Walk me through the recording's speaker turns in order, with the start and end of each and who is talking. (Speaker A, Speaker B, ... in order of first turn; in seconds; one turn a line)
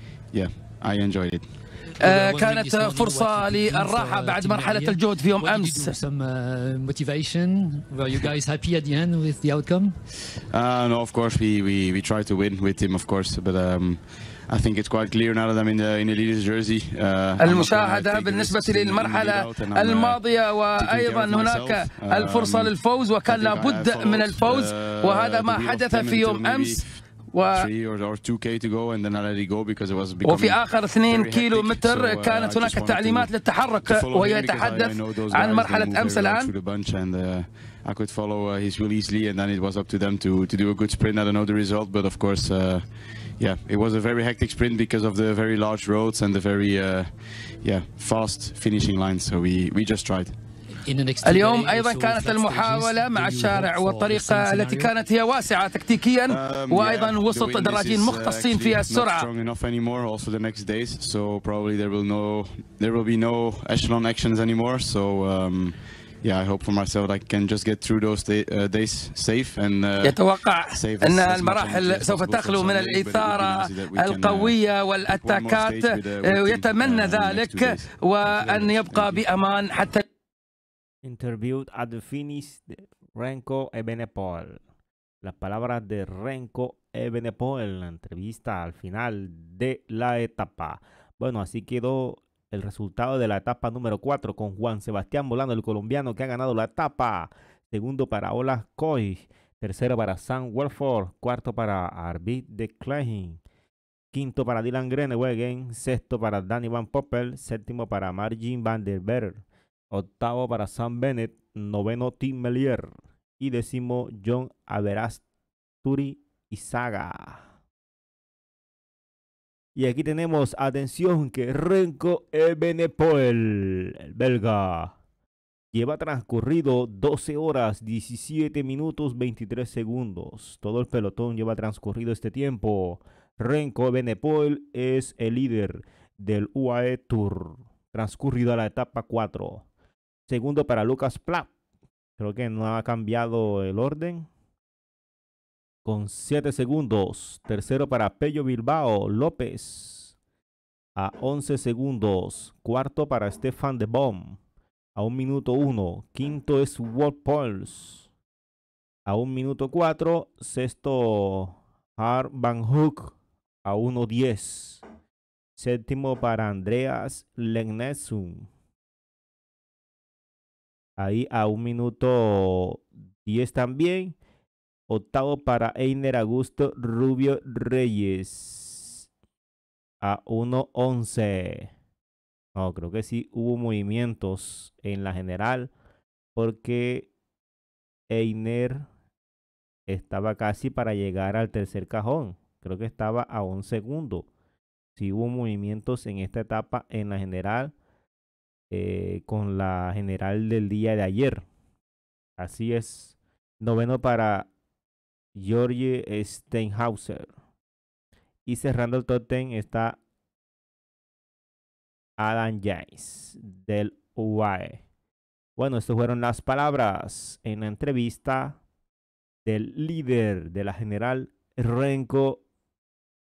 Speaker A: 0.3-1.4
Speaker B: 2.0-6.0
Speaker C: 2.0-10.0
Speaker A: 10.5-42.8
Speaker B: 17.4-27.7
Speaker B: 30.2-36.5
Speaker A: 43.4-47.1
Speaker A: 47.6-50.4
Speaker C: 50.8-54.9
Speaker B: 51.2-59.3
Speaker A: 56.2-79.3
Speaker B: 70.0-80.0
Speaker D: 81.0-84.6
Speaker D: 85.2-103.4
Speaker D: 104.1-115.2
Speaker D: 115.8-117.4
Speaker D: 119.7-124.9
Speaker D: 125.7-139.7
Speaker D: 140.3-141.5
Speaker D: 142.2-144.3
Speaker D: 145.8-150.1
Speaker D: 150.9-154.4
Speaker D: 154.9-158.1
Speaker D: 159.1-164.8
Speaker D: 165.6-168.5
Speaker D: 171.0-174.2
Speaker D: 174.9-179.0
Speaker D: 180.0-181.7
Speaker D: 182.5-185.7
Speaker D: 186.3-187.1
Speaker D: 188.1-188.9
Speaker D: 189.9-194.3
Speaker D: 194.9-197.7
Speaker D: 198.7-201.4
Speaker D: 202.4-204.5
Speaker D: 205.3-207.3
Speaker D: 208.4-210.0
Speaker D: 212.2-214.8
Speaker D: 215.6-218.6
Speaker D: 219.4-222.4